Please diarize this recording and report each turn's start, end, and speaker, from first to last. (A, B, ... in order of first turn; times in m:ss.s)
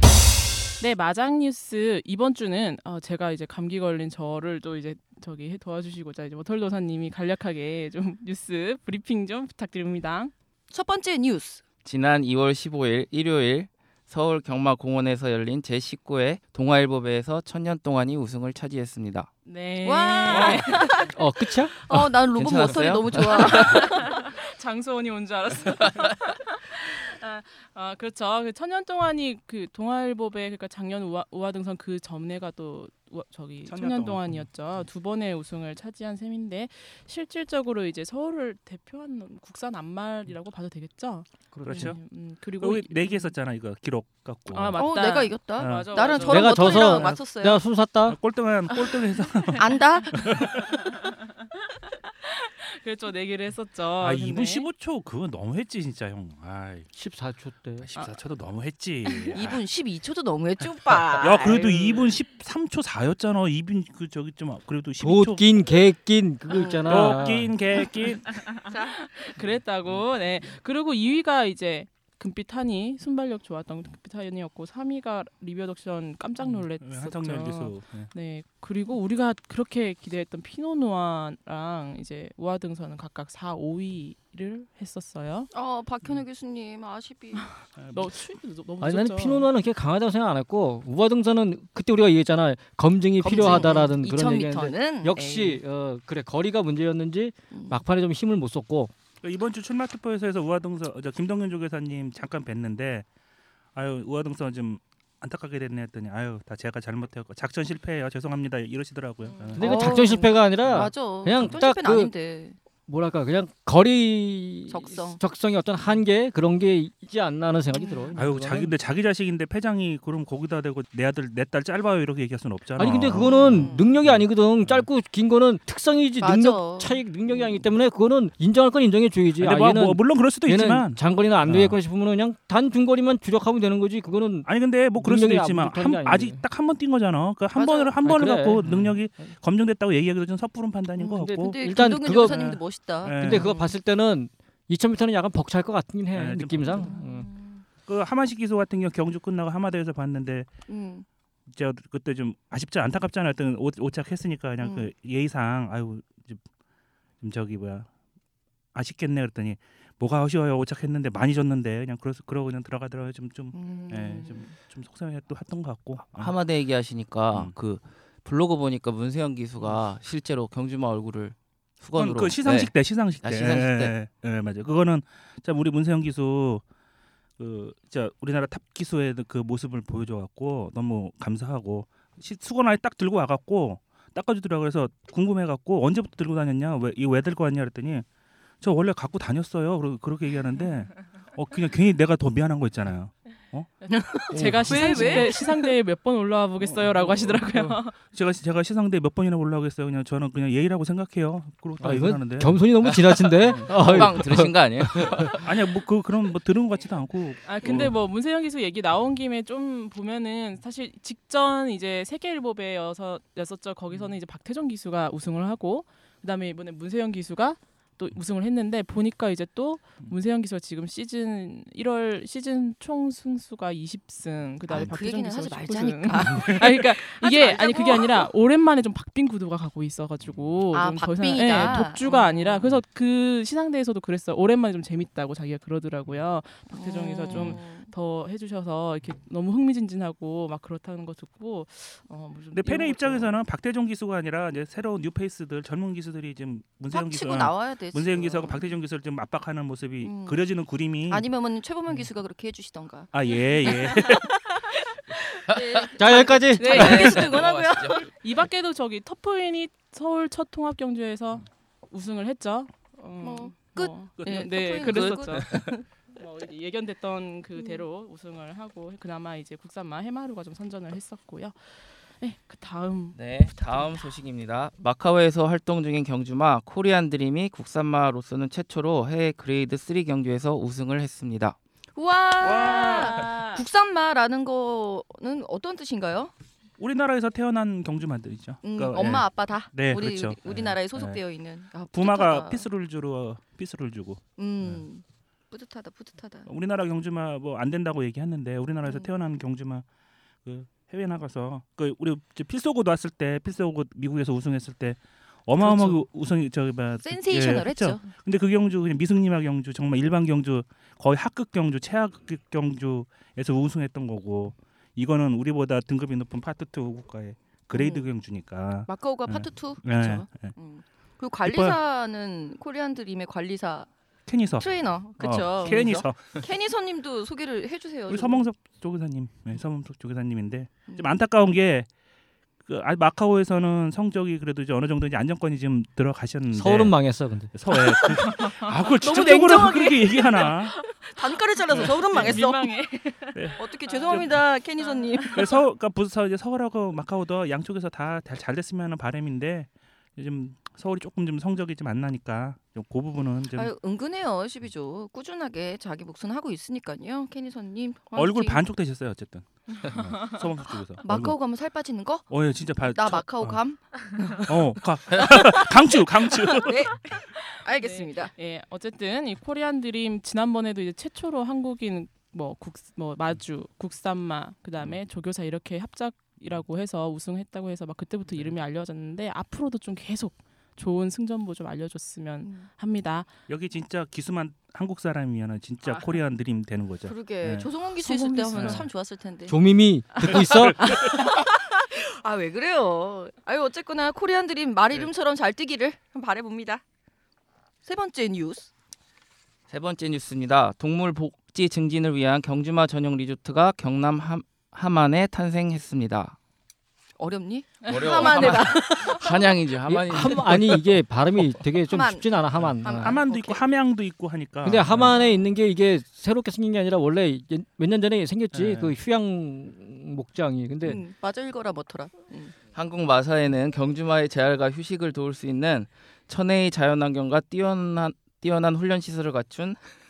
0:00.8-0:10.3 A
0:10.7-0:11.6 B
0:11.8-0:19.3 C
0:19.4-0:21.0 A
0:19.8-0:21.1 B
0:20.3-0:20.6 D
0:21.1-0:22.0 E
0:21.7-0:24.2 B
0:22.3-0:24.0 C
0:23.5-0:43.3 A
0:33.6-0:34.5 D
0:41.5-0:42.0 D
0:41.6-0:41.9 E
0:42.6-0:44.8 D
0:44.5-0:47.0 A
0:44.8-0:47.6 B
0:45.6-0:47.2 D
0:46.3-0:48.2 E
0:48.0-0:50.6 D
0:49.6-0:50.4 B
0:50.1-0:51.2 A
0:52.2-0:54.7 A
0:54.0-0:56.9 D
0:56.9-0:57.9 E
0:57.8-0:59.6 D
0:59.3-1:02.1 B
1:00.8-1:05.6 D
1:05.0-1:07.5 E
1:06.5-1:07.2 B
1:06.8-1:08.4 D
1:08.6-1:25.5 A
1:08.7-1:09.0 B
1:16.4-1:18.1 D
1:25.5-1:27.5 B
1:27.4-1:29.5 A
1:27.8-1:28.1 D
1:28.8-1:38.9 E
1:33.2-1:35.6 B
1:37.5-1:37.8 B
1:39.2-1:43.1 D
1:43.7-1:50.9 D
1:49.2-1:52.6 B
1:49.6-1:52.1 E
1:52.9-1:58.7 E
1:54.7-1:55.2 B
1:57.7-1:58.1 B
1:58.1-2:04.8 D
2:02.8-2:16.4 E
2:03.1-2:03.9 B
2:06.2-2:07.6 B
2:09.4-2:11.8 D
2:14.4-2:23.6 D
2:17.5-2:18.0 B
2:18.0-2:19.3 E
2:21.0-2:23.8 B
2:21.1-2:22.6 E
2:23.1-2:27.3 E
2:26.1-2:26.9 D
2:26.7-2:27.6 B
2:27.8-2:30.5 D
2:30.7-2:31.0 B
2:31.5-2:36.4 D
2:34.6-2:34.9 B
2:37.2-2:37.9 D
2:38.7-2:46.3 D
2:43.5-2:44.6 B
2:46.2-2:52.7 C
2:52.0-2:56.6 D
2:53.2-2:53.9 C
2:57.4-3:08.0 D
3:08.6-3:13.8 D
3:13.8-3:18.0 A
3:13.9-3:15.7 B
3:14.3-3:15.3 D
3:14.4-3:15.2 E
3:16.6-3:24.0 D
3:21.8-3:25.3 E
3:22.8-3:25.4 C
3:25.4-3:27.9 D
3:27.4-4:03.3 A
3:44.7-3:48.3 B
3:46.2-3:46.6 D
3:50.7-3:52.7 B
3:51.5-3:51.8 D
3:56.7-3:57.9 B
3:57.3-3:57.6 D
4:02.5-4:11.3 D
4:06.9-4:08.6 B
4:10.0-4:10.4 B
4:11.1-4:18.1 B
4:13.1-4:14.4 D
4:15.5-4:18.1 C
4:16.0-4:17.4 E
4:16.6-4:17.1 A
4:18.1-4:34.0 A
4:23.2-4:25.8 B
4:24.2-4:25.4 D
4:24.8-4:25.7 C
4:27.6-4:27.8 B
4:33.2-4:41.6 C
4:41.9-4:46.3 B
4:42.4-4:43.3 D
4:42.4-4:43.6 A
4:46.8-4:51.2 D
4:48.6-4:52.7 B
4:51.9-4:54.8 D
4:54.4-4:56.5 B
4:56.5-4:59.8 D
4:58.8-4:59.1 B
5:00.4-5:20.5 D
5:05.7-5:06.0 B
5:07.0-5:08.1 B
5:17.7-5:18.0 B
5:18.9-5:23.9 B
5:21.4-5:21.8 D
5:24.2-5:26.4 D
5:24.6-5:28.4 B
5:28.1-5:31.9 D
5:30.9-5:31.2 B
5:32.6-5:37.0 D
5:36.5-5:37.5 E
5:37.5-5:40.7 D
5:37.8-5:42.7 B
5:38.2-5:45.6 A
5:41.7-5:42.4 D
5:43.6-5:45.6 B
5:44.1-5:44.4 D
5:45.3-5:53.7 D
5:53.5-5:58.6 B
5:58.1-6:01.4 D
6:01.0-6:02.3 B
6:02.3-6:03.6 D
6:02.8-6:04.5 B
6:04.4-6:06.9 D
6:05.2-6:05.8 B
6:06.5-6:08.3 B
6:06.6-6:23.3 A
6:23.5-6:27.7 D
6:27.0-6:29.6 B
6:28.0-6:28.9 A
6:28.5-6:28.9 D
6:29.5-6:30.8 E
6:30.2-6:36.8 B
6:30.2-6:31.2 D
6:37.8-6:38.7 B
6:39.7-6:46.4 C
6:47.2-6:49.5 B
6:47.8-6:48.8 A
6:47.9-6:51.0 C
6:49.8-6:53.2 E
6:51.9-6:53.6 B
6:52.6-6:55.2 D
6:54.6-7:01.0 E
6:58.5-6:59.0 D
7:00.8-7:02.5 B
7:02.7-7:09.8 C